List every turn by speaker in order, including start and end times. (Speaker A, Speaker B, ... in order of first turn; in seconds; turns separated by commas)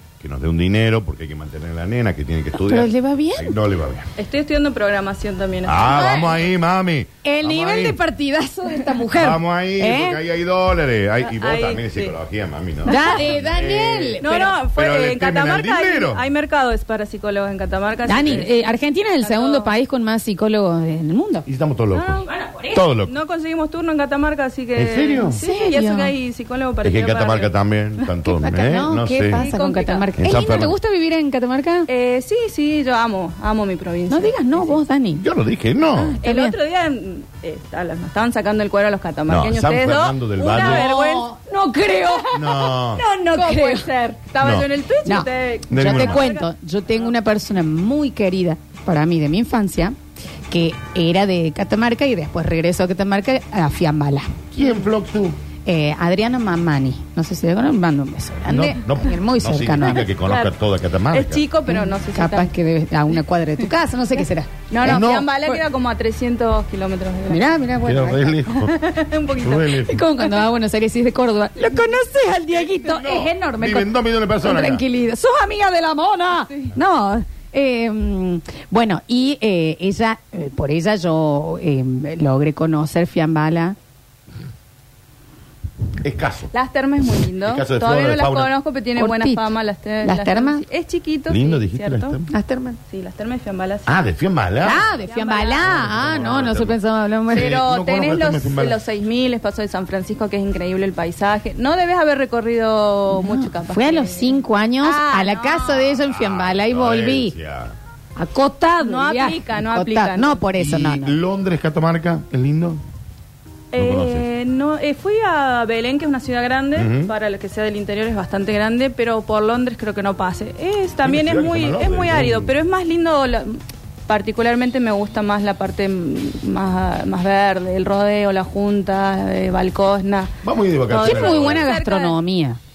Speaker A: 0.2-4.1, Speaker B: 2.5-3.5, Speaker C: 4.2-6.3, Speaker A: 5.6-8.0, Speaker B: 5.9-6.4, Speaker B: 7.2-10.2, Speaker A: 9.1-16.2, Speaker C: 11.2-12.2, Speaker C: 12.8-13.2, Speaker B: 12.8-14.6, Speaker C: 14.2-18.6, Speaker B: 18.0-21.4, Speaker C: 19.2-19.7, Speaker A: 21.4-23.1, Speaker C: 21.9-22.3, Speaker B: 22.2-22.8, Speaker C: 23.0-28.1, Speaker A: 24.8-25.4, Speaker B: 25.3-26.1, Speaker A: 26.8-29.4, Speaker B: 28.2-31.9, Speaker C: 29.4-30.1, Speaker A: 30.2-30.7, Speaker C: 31.9-34.8, Speaker B: 34.1-35.2, Speaker A: 35.1-36.2, Speaker B: 35.9-36.5, Speaker C: 36.2-41.3, Speaker A: 39.3-40.8, Speaker B: 40.4-43.9, Speaker C: 42.0-46.5, Speaker A: 42.3-43.0, Speaker A: 44.4-44.7, Speaker B: 45.0-49.9, Speaker A: 45.7-46.2, Speaker B: 50.5-54.3, Speaker A: 54.5-55.4, Speaker B: 55.6-60.0, Speaker A: 58.5-61.4, Speaker C: 60.0-60.5, Speaker C: 61.1-62.5, Speaker B: 61.7-65.6, Speaker C: 64.7-67.4, Speaker A: 64.8-65.3, Speaker B: 67.3-68.7, Speaker A: 67.8-68.7, Speaker C: 68.7-69.9, Speaker A: 69.4-70.0, Speaker B: 69.8-83.8, Speaker A: 72.8-74.8, Speaker A: 86.0-86.5, Speaker C: 86.5-92.2, Speaker A: 87.4-88.5, Speaker B: 89.0-90.6, Speaker A: 91.3-92.3, Speaker B: 92.3-92.8, Speaker C: 92.9-94.1, Speaker A: 93.8-94.9, Speaker C: 94.6-96.5, Speaker B: 94.6-97.5, Speaker A: 95.6-98.8, Speaker C: 97.3-105.9, Speaker B: 103.2-107.3, Speaker A: 105.8-107.7, Speaker B: 108.2-111.2, Speaker C: 108.8-110.5, Speaker A: 110.6-112.8, Speaker C: 113.7-130.3, Speaker A: 113.8-114.2, Speaker A: 116.8-117.1, Speaker A: 121.0-122.5, Speaker A: 130.4-131.7, Speaker C: 130.9-132.1, Speaker B: 130.9-132.6